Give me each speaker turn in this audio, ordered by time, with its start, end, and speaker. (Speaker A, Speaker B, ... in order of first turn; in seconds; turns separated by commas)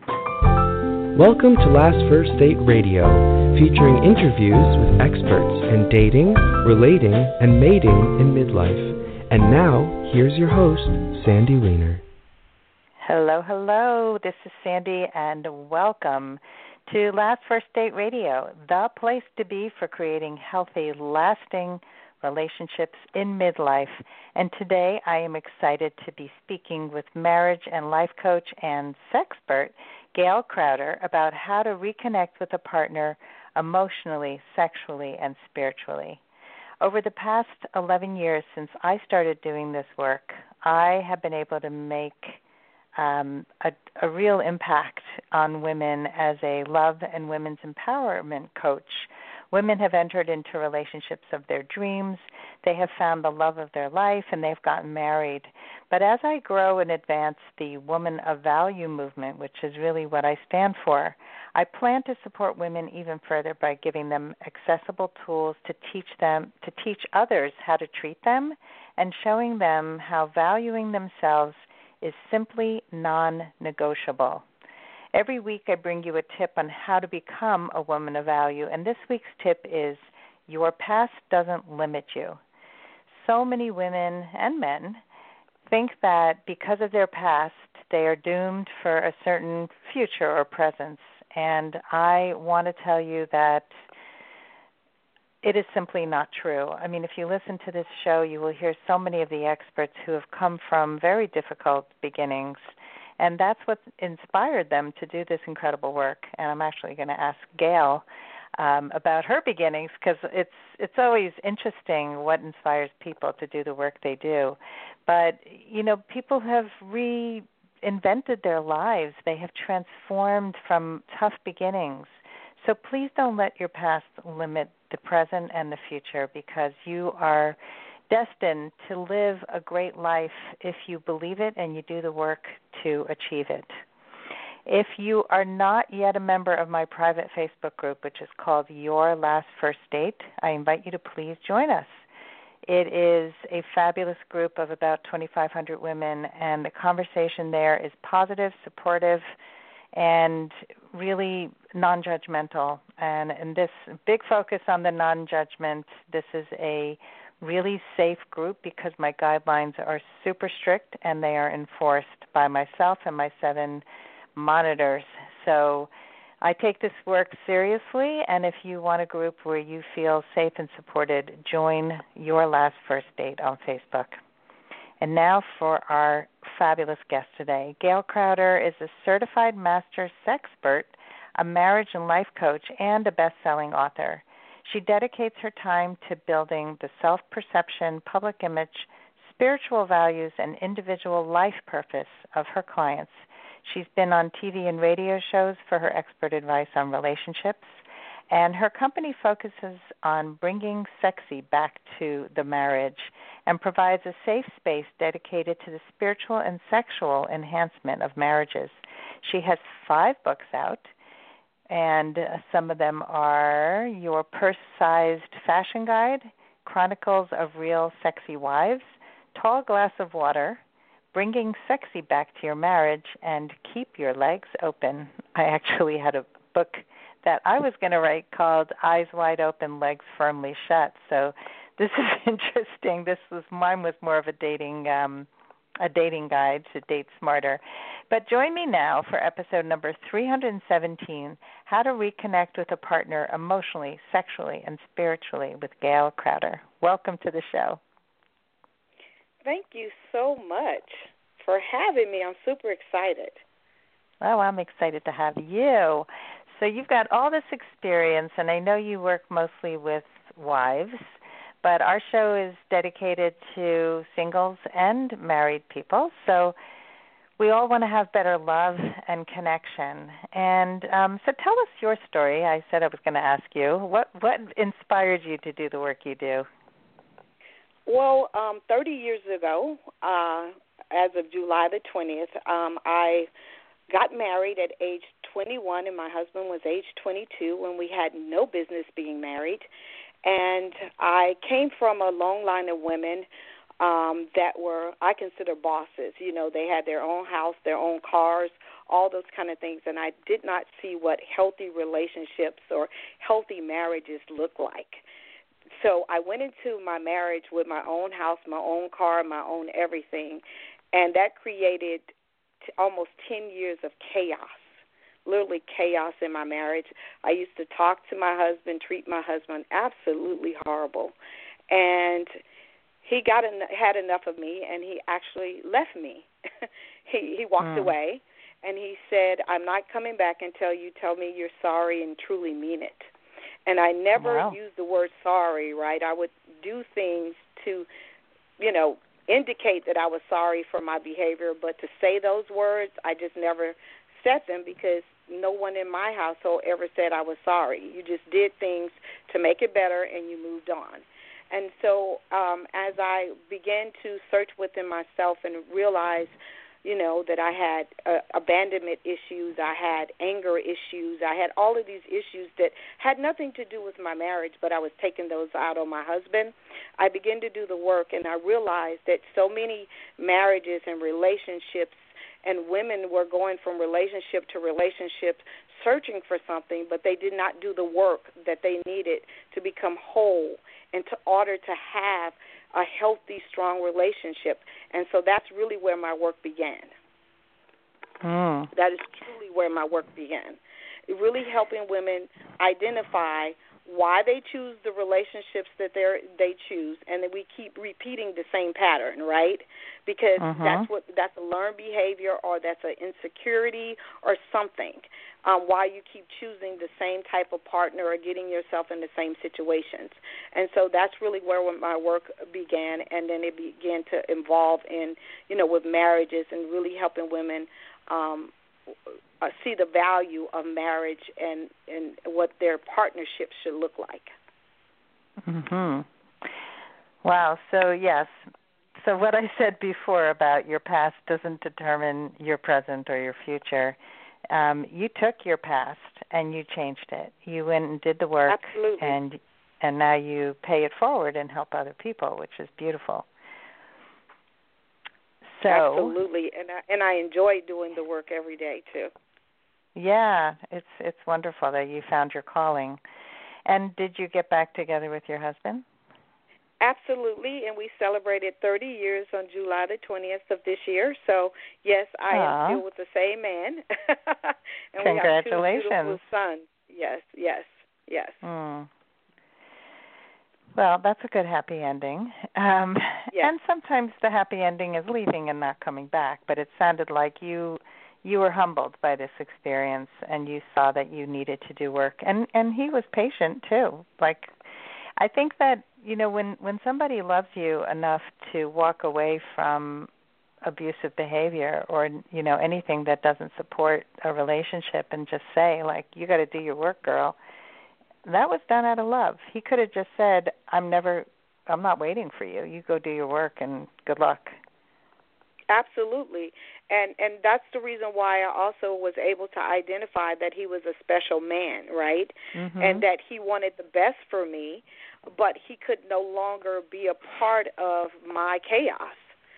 Speaker A: 1.1-12.0, Speaker B: 13.0-36.2, Speaker B: 36.8-42.4, Speaker B: 43.0-74.5, Speaker B: 75.1-82.4, Speaker B: 83.1-85.0, Speaker B: 85.7-93.7, Speaker B: 95.4-108.0, Speaker B: 108.6-127.6, Speaker B: 128.1-133.7, Speaker B: 134.7-142.0, Speaker B: 142.7-149.2, Speaker B: 149.9-163.8, Speaker B: 164.3-174.2, Speaker B: 175.0-197.7, Speaker B: 198.3-210.9, Speaker B: 211.7-220.6, Speaker B: 221.1-235.3, Speaker B: 235.8-247.8, Speaker C: 249.4-253.4, Speaker B: 254.2-266.6, Speaker B: 267.4-276.5, Speaker C: 277.9-283.3, Speaker C: 283.9-289.7, Speaker C: 290.2-293.3, Speaker C: 293.8-305.1, Speaker C: 305.7-310.4, Speaker C: 310.9-312.1, Speaker C: 312.8-321.1, Speaker C: 321.7-322.3, Speaker C: 323.0-333.1, Speaker B: 327.6-327.9, Speaker C: 333.7-337.9, Speaker B: 334.2-334.6, Speaker C: 338.6-386.9, Speaker B: 388.2-388.7, Speaker C: 388.7-418.5, Speaker B: 400.4-400.9, Speaker C: 419.4-424.4, Speaker B: 425.4-426.5, Speaker B: 427.2-434.0, Speaker B: 434.5-443.3, Speaker C: 438.5-439.2, Speaker B: 445.5-446.1, Speaker C: 445.6-449.1, Speaker B: 449.9-453.0, Speaker B: 453.7-455.9, Speaker C: 456.8-468.4, Speaker B: 462.3-462.8, Speaker B: 465.0-466.2, Speaker B: 468.4-468.9, Speaker B: 470.8-484.6, Speaker B: 485.2-490.1, Speaker B: 490.6-497.4, Speaker B: 498.2-504.6, Speaker C: 505.7-519.4, Speaker B: 512.5-513.0